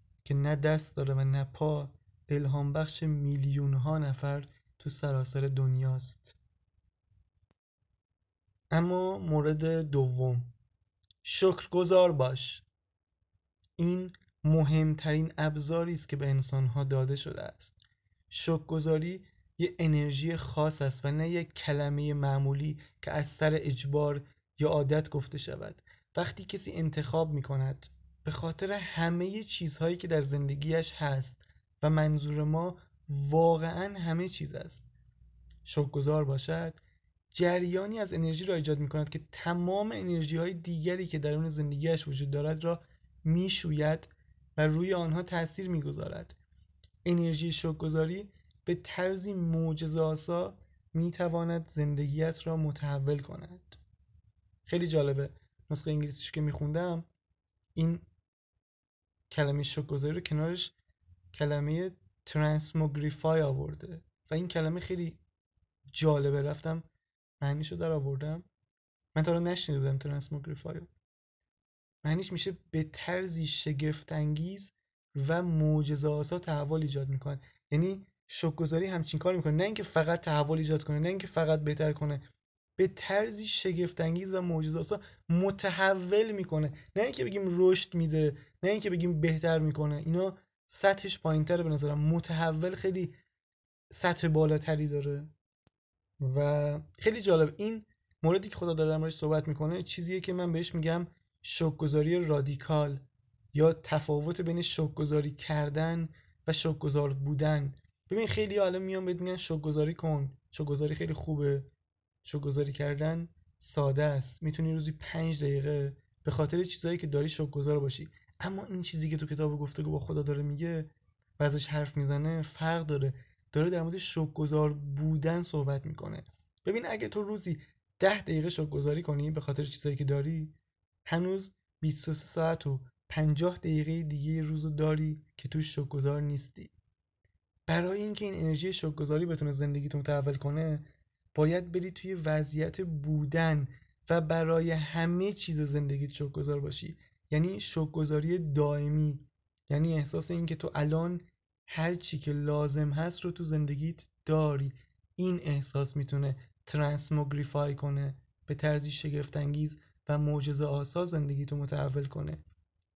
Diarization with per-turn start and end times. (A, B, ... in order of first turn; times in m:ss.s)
0:00.2-0:06.4 A
0:08.7-0:10.5 A
0:11.2-0:12.6 A
0:13.8-0:17.8 A
0:18.3-0:34.8 A
0:35.6-0:36.8 A
0:37.3-0:46.4 A
0:47.0-0:53.8 A
0:54.7-0:57.1 A
0:57.8-0:58.1 A
0:59.3-1:00.8 A
1:01.3-1:05.2 A
1:05.9-1:06.8 A
1:07.4-1:08.4 A
1:09.2-1:10.9 A
1:12.0-1:22.2 A
1:22.8-1:33.2 A
1:33.9-1:35.3 A
1:36.2-1:51.7 A
1:52.2-2:16.7 A
2:17.7-2:42.4 A